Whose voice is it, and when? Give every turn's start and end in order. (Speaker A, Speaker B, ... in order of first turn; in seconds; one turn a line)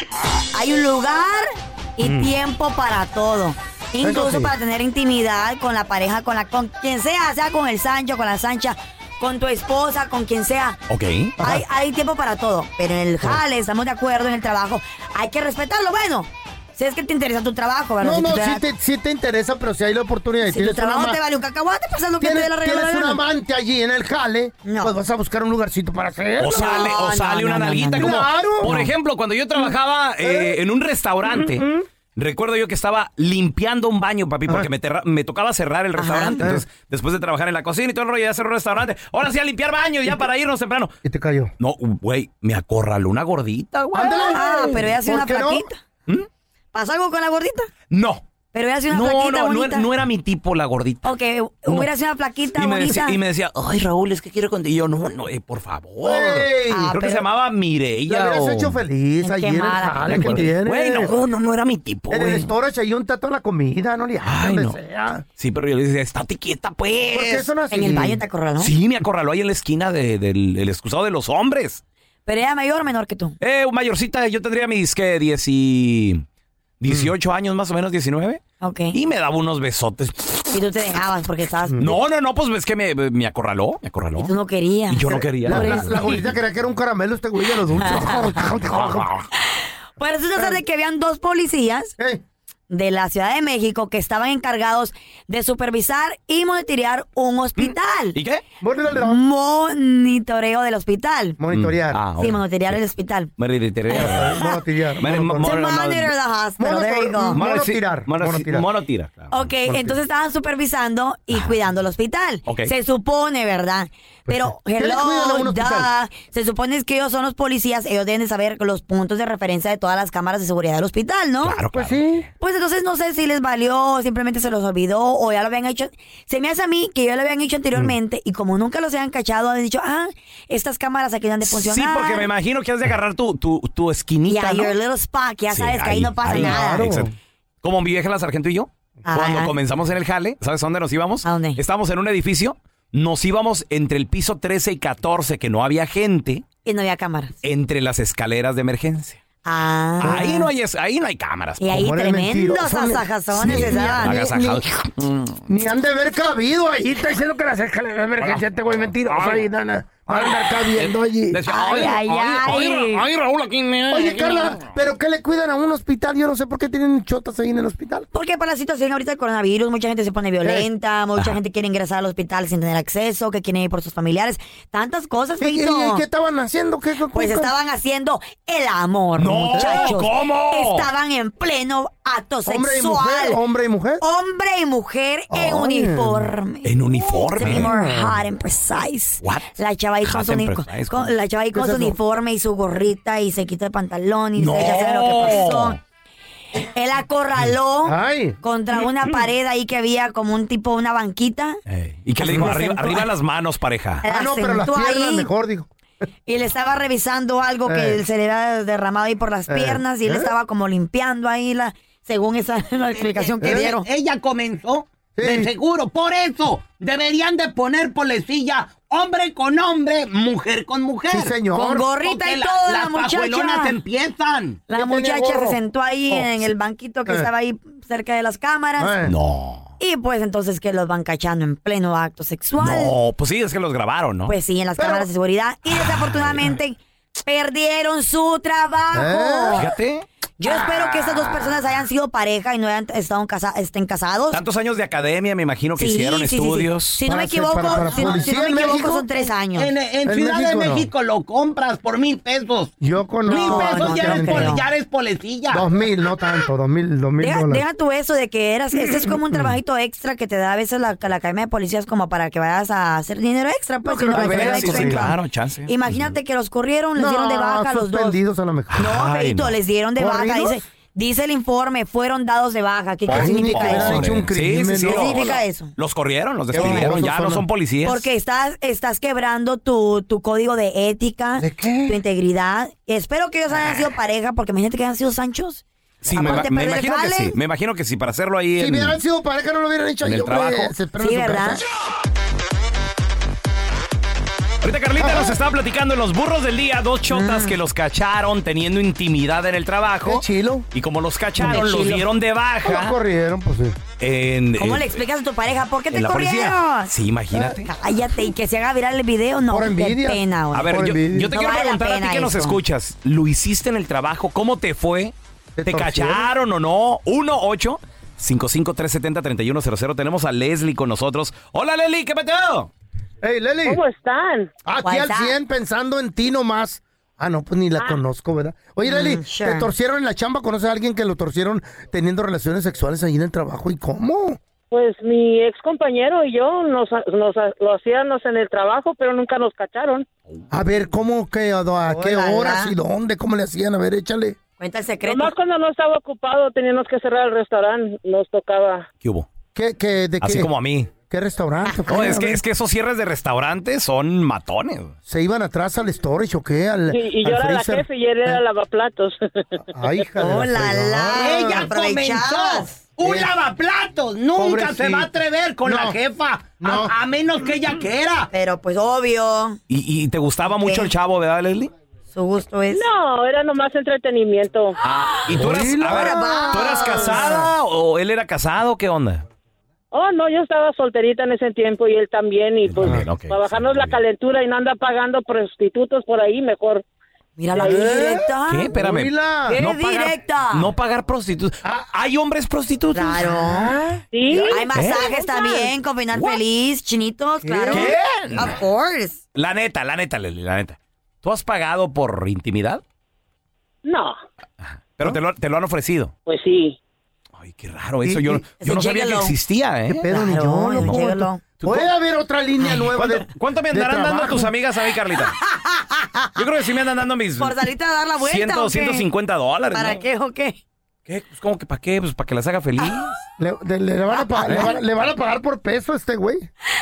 Speaker A: 0.5-10.8
Speaker B: 4.0-4.5
Speaker C: 10.9-11.4
Speaker A: 11.4-18.6
Speaker B: 18.0-21.2
Speaker A: 20.4-23.2
Speaker B: 22.2-26.9
Speaker A: 24.6-24.9
Speaker C: 26.4-40.9
Speaker A: 26.5-28.9
Speaker B: 27.9-28.8
Speaker B: 30.2-30.5
Speaker A: 36.0-36.5
Speaker B: 41.0-41.5
Speaker C: 41.6-44.6
Speaker B: 43.9-45.6
Speaker A: 44.2-45.8
Speaker A: 46.7-47.7
Speaker C: 47.9-48.2
Speaker A: 48.5-49.9
Speaker C: 48.9-51.1
Speaker A: 51.0-53.2
Speaker C: 52.5-58.8
Speaker B: 56.0-56.9
Speaker A: 56.7-57.2
Speaker B: 58.1-61.1
Speaker A: 59.2-60.5
Speaker C: 60.0-62.5
Speaker B: 62.1-65.2
Speaker C: 64.2-64.8
Speaker C: 65.3-67.5
Speaker B: 67.1-68.2
Speaker A: 67.7-68.7
Speaker C: 68.6-71.8
Speaker A: 72.2-73.3
Speaker C: 73.4-76.2
Speaker C: 76.8-80.5
Speaker B: 76.9-77.1
Speaker A: 78.6-79.0
Speaker A: 80.5-81.8
Speaker B: 81.7-81.9
Speaker C: 81.8-84.3
Speaker A: 84.2-86.2
Speaker C: 84.9-86.2
Speaker B: 85.5-89.1
Speaker A: 87.8-88.4
Speaker C: 88.7-89.2
Speaker A: 90.0-91.9
Speaker B: 92.0-92.2
Speaker A: 92.7-98.2
Speaker C: 97.6-98.4
Speaker B: 98.6-99.2
Speaker A: 98.9-101.4
Speaker B: 101.4-102.0
Speaker C: 101.5-102.8
Speaker A: 102.2-103.3
Speaker C: 103.4-104.4
Speaker A: 103.9-104.6
Speaker B: 103.9-105.6
Speaker C: 105.0-106.1
Speaker A: 105.4-107.4
Speaker B: 106.6-108.7
Speaker C: 107.3-109.5
Speaker A: 109.3-121.6
Speaker B: 109.7-110.0
Speaker C: 112.5-112.7
Speaker B: 114.3-115.9
Speaker C: 121.4-122.2
Speaker B: 121.7-122.3
Speaker A: 122.4-132.3
Speaker C: 131.4-134.7
Speaker A: 134.3-136.9
Speaker C: 135.5-137.1
Speaker B: 136.3-137.1
Speaker C: 137.6-146.4
Speaker A: 139.1-139.5
Speaker A: 141.2-141.6
Speaker A: 146.6-147.3
Speaker C: 147.4-149.2
Speaker A: 149.4-150.5
Speaker C: 150.0-151.7
Speaker A: 151.6-154.2
Speaker B: 151.7-154.6
Speaker C: 153.4-155.4
Speaker B: 155.5-161.8
Speaker C: 159.1-159.4
Speaker C: 160.1-162.9
Speaker A: 161.5-163.1
Speaker D: 163.2-164.3
Speaker B: 163.9-168.1
Speaker A: 168.1-176.0
Speaker B: 170.4-170.7
Speaker B: 175.4-177.5
Speaker A: 177.1-183.4
Speaker C: 179.2-180.9
Speaker B: 179.5-179.9
Speaker B: 182.4-184.0
Speaker A: 184.0-195.8
Speaker B: 185.3-186.3
Speaker C: 186.6-187.7
Speaker B: 187.4-188.2
Speaker C: 189.2-191.1
Speaker B: 191.5-192.0
Speaker C: 194.4-195.8
Speaker A: 196.6-201.6
Speaker B: 197.8-198.4
Speaker C: 201.7-204.0
Speaker A: 202.2-203.1
Speaker B: 202.3-202.6
Speaker A: 204.0-205.3
Speaker B: 204.0-205.7
Speaker A: 206.3-213.8
Speaker B: 207.7-208.0
Speaker B: 209.5-210.3
Speaker D: 213.0-221.4
Speaker B: 213.4-213.7
Speaker B: 215.2-215.5
Speaker B: 221.1-221.9
Speaker A: 221.5-223.7
Speaker D: 221.9-224.6
Speaker A: 224.7-229.0
Speaker B: 224.7-226.5
Speaker B: 228.8-229.1
Speaker C: 229.0-229.7
Speaker A: 229.8-232.9
Speaker C: 232.6-234.3
Speaker A: 234.3-239.7
Speaker B: 234.8-235.1
Speaker C: 236.1-236.4
Speaker B: 238.9-239.7
Speaker C: 239.5-240.1
Speaker A: 240.4-244.4
Speaker B: 240.4-241.4
Speaker C: 244.3-247.0
Speaker A: 245.8-249.7
Speaker B: 247.0-249.2
Speaker D: 249.5-252.7
Speaker B: 250.0-250.9
Speaker B: 252.8-254.6
Speaker D: 253.3-255.7
Speaker A: 253.3-254.6
Speaker B: 255.5-257.6
Speaker A: 257.2-268.2
Speaker B: 263.8-265.1
Speaker C: 264.1-266.1
Speaker B: 266.9-268.9
Speaker C: 268.7-269.5
Speaker A: 268.8-274.2
Speaker B: 270.0-270.6
Speaker C: 273.1-278.1
Speaker B: 273.1-275.3
Speaker A: 274.8-275.7
Speaker B: 276.5-277.4
Speaker A: 276.5-277.0
Speaker A: 277.8-287.4
Speaker B: 281.4-282.0
Speaker C: 286.0-289.0
Speaker B: 286.1-286.4
Speaker B: 288.6-291.6
Speaker C: 290.0-290.7
Speaker A: 291.0-291.6
Speaker C: 294.6-303.0
Speaker B: 295.0-295.3
Speaker A: 297.1-297.6
Speaker B: 300.0-300.7
Speaker A: 301.4-302.1
Speaker B: 302.6-303.8
Speaker C: 304.0-305.0
Speaker A: 304.6-306.9
Speaker C: 305.9-307.7
Speaker A: 307.6-312.6
Speaker B: 309.5-311.3
Speaker C: 310.5-315.1
Speaker B: 315.6-316.3
Speaker C: 315.6-322.7
Speaker B: 323.2-323.8
Speaker E: 323.6-324.5
Speaker B: 324.6-334.4
Speaker A: 324.8-325.3
Speaker A: 328.8-329.7
Speaker E: 334.7-340.1
Speaker B: 340.5-344.4
Speaker A: 341.9-342.7
Speaker A: 344.6-345.3
Speaker E: 345.0-348.9
Speaker C: 349.0-349.3
Speaker B: 349.5-350.5
Speaker C: 350.2-350.9
Speaker B: 351.1-352.4
Speaker C: 351.9-354.9
Speaker B: 355.1-357.9
Speaker E: 356.9-359.6
Speaker B: 359.7-361.7
Speaker A: 360.2-362.7
Speaker D: 361.2-368.3
Speaker B: 363.0-363.4
Speaker B: 364.3-365.1
Speaker B: 365.6-366.0
Speaker B: 366.6-366.9
Speaker A: 368.3-369.6
Speaker C: 369.7-371.7
Speaker A: 370.6-370.9
Speaker A: 372.1-372.9
Speaker E: 372.7-374.8
Speaker C: 374.8-379.2
Speaker B: 375.3-377.4
Speaker A: 375.4-377.5
Speaker E: 379.9-386.8
Speaker C: 382.6-384.0
Speaker A: 387.4-388.7
Speaker E: 387.5-388.1
Speaker B: 387.6-389.6
Speaker C: 388.4-393.3
Speaker A: 389.5-390.7
Speaker A: 392.9-393.7
Speaker B: 393.3-394.6
Speaker E: 394.1-394.7
Speaker A: 394.3-399.2
Speaker C: 394.7-395.1
Speaker B: 397.4-398.0
Speaker C: 397.7-398.5
Speaker C: 399.3-402.8
Speaker E: 403.8-404.2
Speaker C: 404.6-406.1
Speaker E: 406.3-406.8
Speaker C: 407.4-410.0
Speaker B: 408.0-408.4
Speaker A: 408.6-409.3
Speaker B: 409.9-414.5
Speaker A: 410.1-411.4
Speaker C: 411.6-411.9
Speaker C: 413.0-415.4
Speaker A: 415.4-416.4
Speaker C: 416.4-417.6
Speaker A: 417.4-419.1
Speaker C: 418.2-420.0
Speaker A: 419.7-420.6
Speaker C: 421.1-423.2
Speaker B: 423.4-426.5
Speaker A: 424.1-424.8